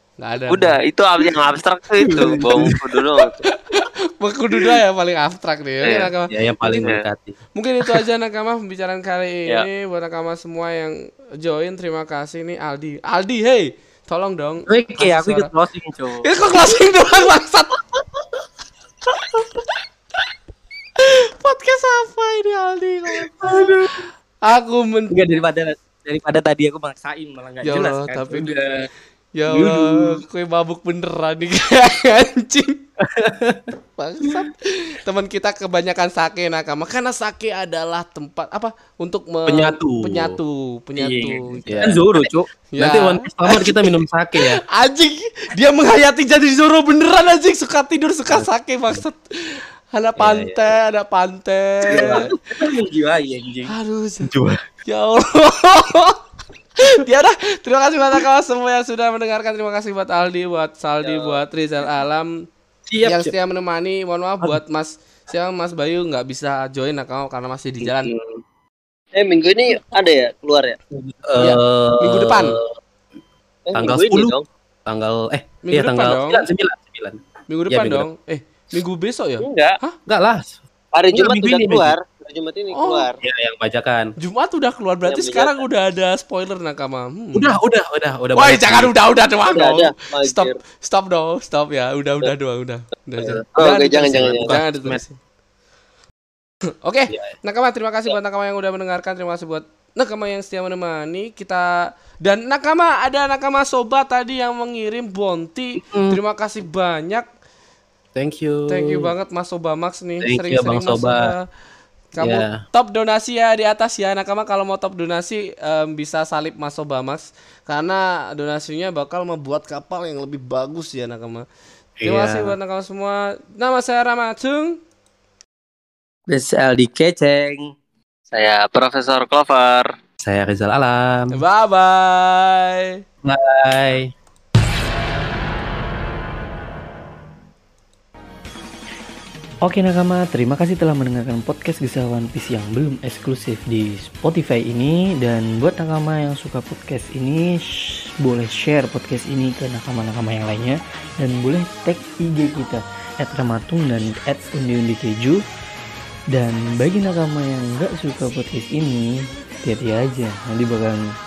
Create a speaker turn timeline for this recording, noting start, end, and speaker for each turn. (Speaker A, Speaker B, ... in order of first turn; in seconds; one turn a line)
Speaker A: 0.2-0.8
Speaker B: 0.5-3.4
Speaker C: 2.0-2.8
Speaker A: 2.2-2.7
Speaker A: 3.5-6.9
Speaker B: 5.8-6.1
Speaker C: 6.3-7.4
Speaker A: 7.5-15.5
Speaker D: 14.7-16.3
Speaker A: 16.2-17.8
Speaker A: 21.0-25.2
Speaker C: 23.4-23.7
Speaker D: 23.5-23.8
Speaker D: 25.1-28.9
Speaker A: 27.6-28.5
Speaker A: 29.4-32.8
Speaker D: 29.5-29.9
Speaker C: 33.0-33.8
Speaker A: 34.0-42.0
Speaker C: 39.5-40.4
Speaker D: 41.0-42.5
Speaker C: 41.7-42.0
Speaker A: 42.7-52.3
Speaker C: 42.8-44.6
Speaker C: 48.3-49.0
Speaker C: 50.2-50.8
Speaker C: 51.9-52.3
Speaker D: 51.9-53.7
Speaker A: 53.7-54.3
Speaker C: 54.2-54.6
Speaker A: 54.8-56.2
Speaker A: 56.8-62.3
Speaker B: 61.0-61.4
Speaker C: 62.9-63.4
Speaker A: 63.0-68.1
Speaker C: 67.8-68.4
Speaker B: 69.2-70.8
Speaker C: 70.9-72.7
Speaker A: 71.4-72.6
Speaker B: 73.7-74.4
Speaker C: 73.7-74.3
Speaker C: 74.9-77.2
Speaker A: 75.7-76.5
Speaker A: 77.5-80.0
Speaker C: 77.7-78.1
Speaker B: 79.4-79.8
Speaker C: 80.1-80.6
Speaker B: 81.0-83.2
Speaker C: 81.1-82.0
Speaker A: 82.7-83.0
Speaker C: 83.2-84.1
Speaker A: 84.2-87.6
Speaker B: 85.1-85.6
Speaker C: 87.3-88.9
Speaker A: 88.3-95.2
Speaker B: 89.5-90.6
Speaker B: 93.6-94.5
Speaker C: 94.2-95.0
Speaker A: 96.8-107.3
Speaker C: 105.8-106.2
Speaker C: 108.2-109.1
Speaker A: 108.7-111.4
Speaker C: 110.2-111.3
Speaker A: 112.1-121.5
Speaker C: 112.2-112.6
Speaker C: 122.0-122.5
Speaker A: 122.0-124.8
Speaker D: 126.3-127.7
Speaker B: 128.3-129.9
Speaker C: 130.2-131.4
Speaker A: 131.3-133.0
Speaker C: 133.2-134.1
Speaker E: 139.7-147.6
Speaker E: 148.2-155.4
Speaker D: 154.5-155.0
Speaker E: 156.4-159.1
Speaker E: 159.7-161.0